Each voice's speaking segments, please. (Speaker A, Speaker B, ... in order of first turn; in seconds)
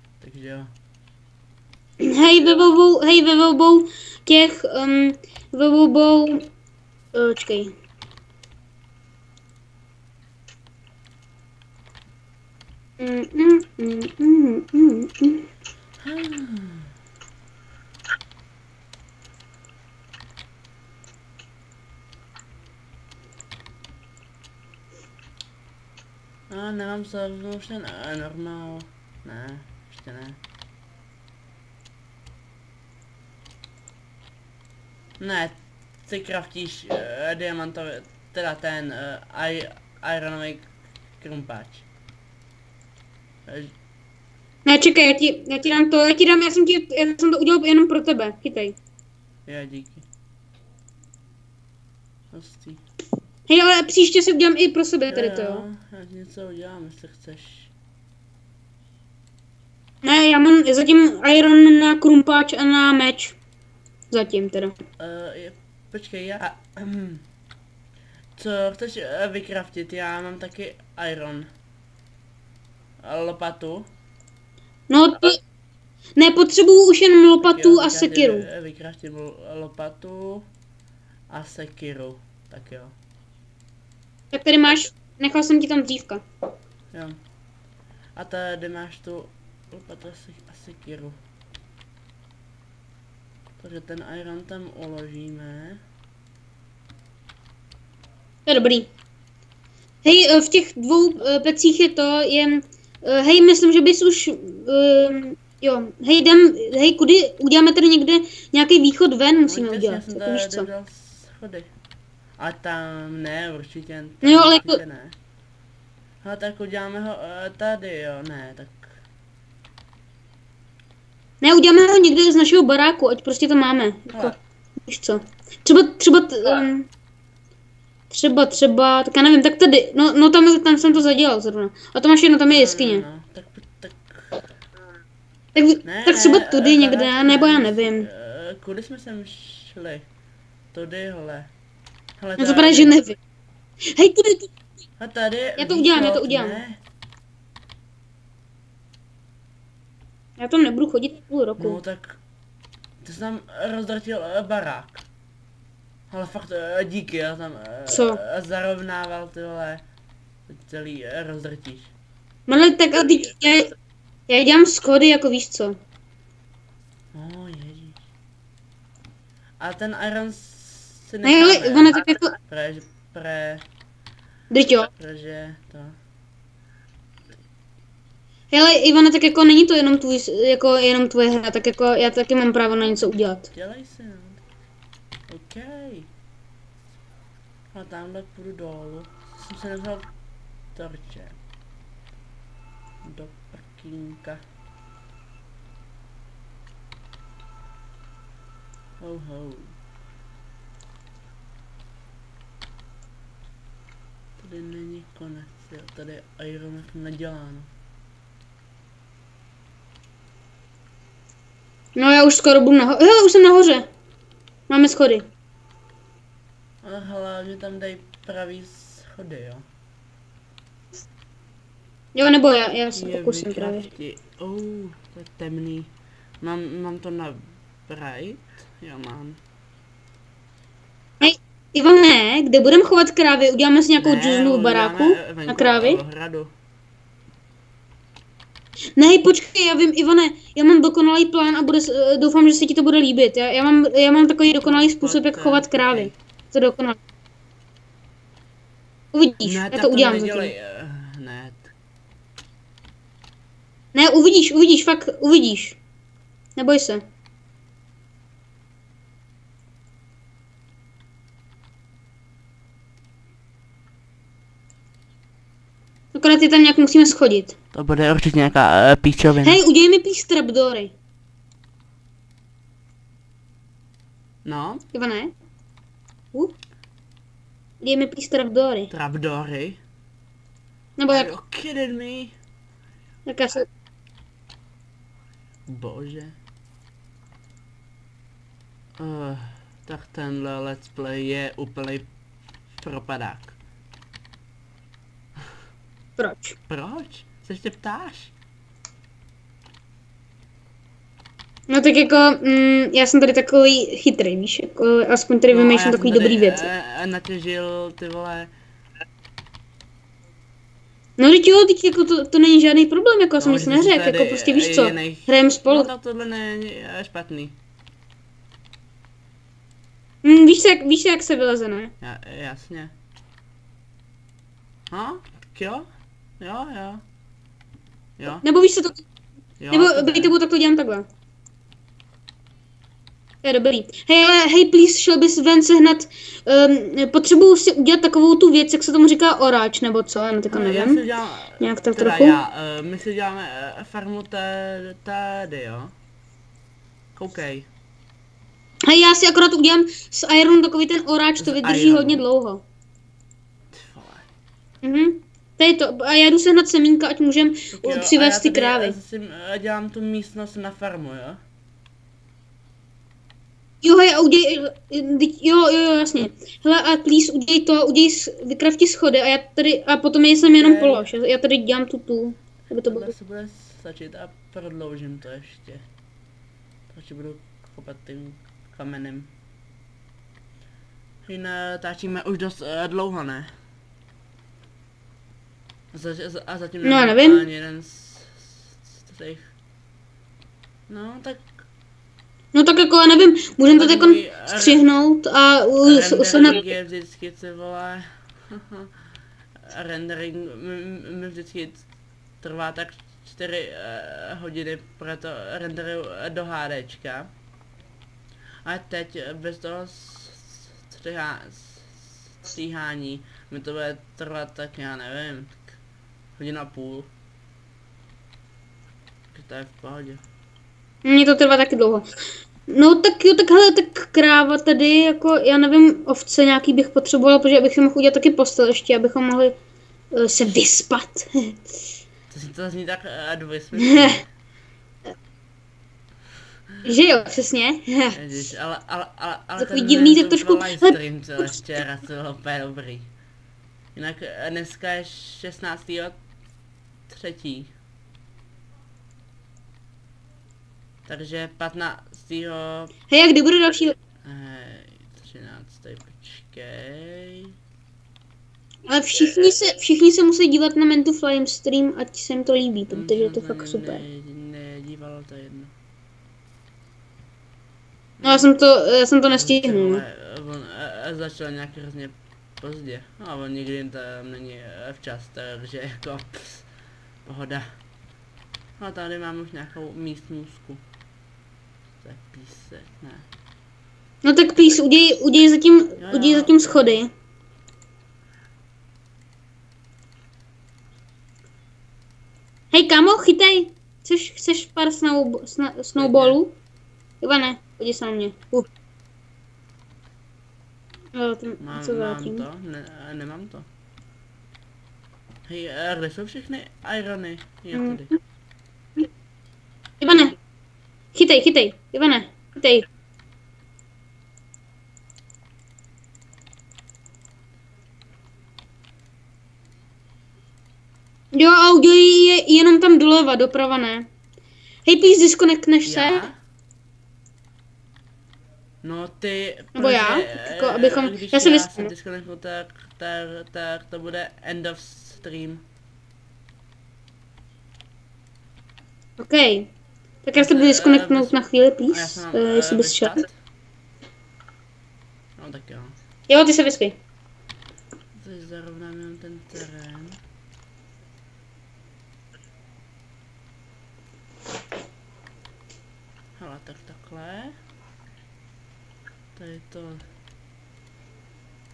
Speaker A: 0.2-0.7, 16.0-16.9, 26.5-30.4, 35.2-41.9, 43.5-43.7, 49.5-50.1, 52.3-52.8, 55.1-57.7, 65.0-67.2, 68.4-71.5, 73.0-73.9, 77.4-80.5, 81.3-83.0, 86.9-87.2, 88.2-91.2, 93.6-95.8, 109.5-111.7, 112.4-115.2, 116.2-119.0, 124.1-124.4, 132.5-134.4, 135.8-140.1, 140.7-141.5, 142.2-143.0, 145.0-146.8, 151.6-152.2, 153.0-155.1, 156.1-159.8, 160.5-161.9, 167.1-168.0, 169.6-173.6, 174.9-176.0, 183.5-184.4, 185.3-186.1, 187.7-190.1, 190.8-191.4, 193.0-194.4, 199.0-199.8, 204.4-207.7, 216.8-219.7, 222.9-229.4, 234.0-236.5, 244.6-246.1, 249.4-251.7, 267.7-269.6, 274.4-274.9, 278.9-279.8, 281.1-282.4, 285.7-286.4, 289.0-292.1, 292.8-293.6, 296.7-298.3, 305.5-308.5, 313.4-317.6, 322.0-322.9, 324.9-325.9, 326.4-327.0, 328.2-328.4, 329.6-330.4, 340.5-345.9, 347.1-347.7, 351.4-352.2, 353.7-354.3, 357.7-361.4, 370.4-371.1, 372.9-375.9, 376.9-379.3, 381.3-383.5, 385.9-389.5, 390.9-391.5, 393.7-394.9, 395.8-398.9, 399.6-401.9, 402.4-407.3, 408.6-415.8, 416.4-417.1, 419.3-420.2, 432.3-434.3, 438.1-443.1, 443.9-446.2, 447.1-447.7, 451.1-452.9, 454.2-457.6, 462.9-465.7, 468.2-468.5, 469.3-476.7, 477.2-477.8, 478.8-480.8, 482.0-483.3, 486.0-487.0, 496.0-496.4, 501.6-503.7, 505.5-508.1, 525.9-526.4, 528.8-535.6, 540.3-543.3, 545.4-546.0, 548.2-550.2, 556.4-557.6, 559.4-560.0
Speaker B: 2.0-6.5, 7.1-7.7, 13.0-15.5, 44.6-48.8, 53.5-55.7, 60.0-63.4, 64.1-64.8, 74.9-75.4, 76.2-78.5, 84.3-86.2, 98.5-98.9, 100.0-110.7, 114.2-114.8, 121.4-126.9, 128.1-133.1, 135.6-138.1, 142.4-143.2, 143.9-144.5, 145.6-146.6, 150.4-151.8, 157.9-158.2, 162.5-163.7, 164.3-165.8, 171.2-172.3, 174.5-174.9, 178.5-183.5, 212.0-213.9, 214.7-215.3, 222.2-223.9, 231.2-236.0, 239.0-247.0, 249.1-250.5, 253.9-255.8, 256.6-257.0, 266.1-267.6, 269.4-270.9, 274.9-275.3, 277.8-278.9, 281.0-281.3, 283.3-283.7, 296.2-296.6, 301.7-306.7, 311.2-315.9, 320.2-321.9, 328.4-329.1, 329.7-331.1, 333.4-341.0, 341.6-342.4, 348.9-352.6, 354.8-359.0, 363.8-373.1, 386.8-387.5, 392.5-396.6, 421.0-422.1, 422.7-429.6, 430.1-431.6, 433.8-434.2, 436.8-438.2, 439.6-441.0, 453.1-454.0, 458.9-464.0, 468.2-470.0, 484.2-487.1, 492.7-496.6, 497.2-498.7, 501.1-502.5, 507.7-508.2, 510.0-510.4, 511.1-512.9, 521.3-524.1, 524.9-526.3, 529.8-531.9, 539.2-539.7, 540.2-543.2, 546.3-547.0